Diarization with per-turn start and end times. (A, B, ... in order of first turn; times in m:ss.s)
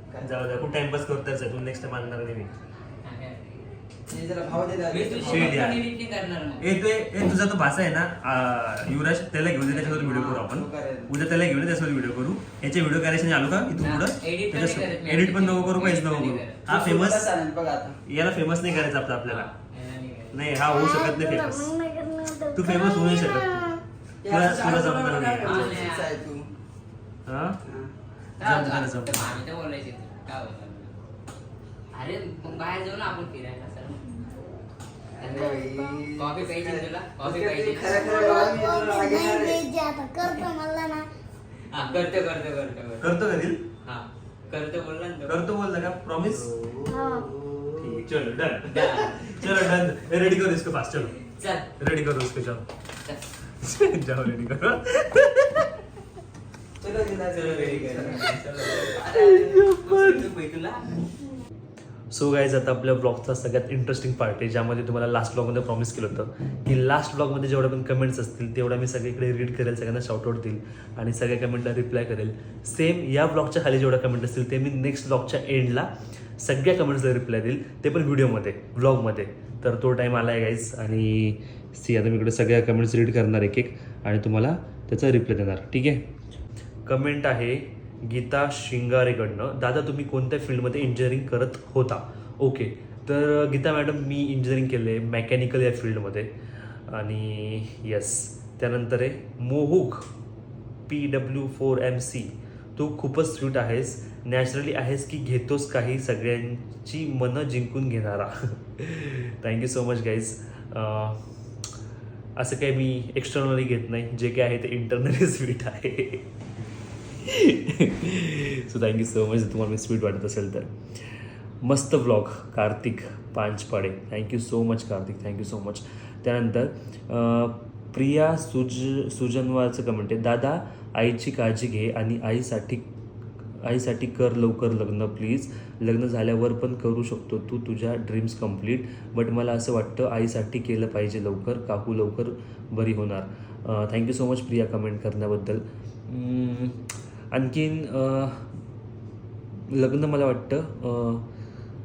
0:00.2-0:02.5 A
0:03.0-0:03.6 B
0:04.1-0:05.6 C
0:04.9-0:06.7 B
0:05.2-0:05.9 A
0:06.6-0:17.3 A
0:09.6-0:10.5 B
0:10.4-0:11.1 C
0:13.8-0:16.6 B
0:16.6-0:18.0 C
0:18.1-0:19.5 A
0:19.2-0:20.5 B
0:20.3-0:21.7 A
0:20.6-0:23.8 D
0:22.5-0:23.6 A
0:24.2-0:26.5 C
0:24.2-0:25.9 A
0:25.4-0:26.1 B
0:27.2-0:27.6 A
0:28.4-0:29.3 A
0:28.4-0:30.9 B
0:31.9-0:34.2 B
0:35.2-0:39.6 C
0:35.2-0:38.3 B
0:35.3-0:35.7 D
0:37.8-0:41.1 D
0:41.7-0:43.2 B
0:43.0-0:43.6 A
0:43.8-0:45.4 B
0:45.2-0:47.2 A
0:46.9-0:47.3 D
0:47.3-0:47.9 C
0:47.8-0:51.2 A
0:48.7-0:49.7 B
0:51.2-0:51.7 B
0:51.8-0:52.6 A
0:53.6-0:55.7 A
0:56.8-0:59.4 C
0:57.2-1:00.8 B
0:59.1-1:00.3 A
1:02.1-1:26.0 A
1:26.8-1:36.3 A
1:36.9-1:40.1 A
1:40.9-1:51.2 A
1:52.4-1:56.3 A
1:57.2-2:00.7 A
2:01.6-2:12.9 A
2:13.6-2:28.5 A
2:29.7-2:31.2 A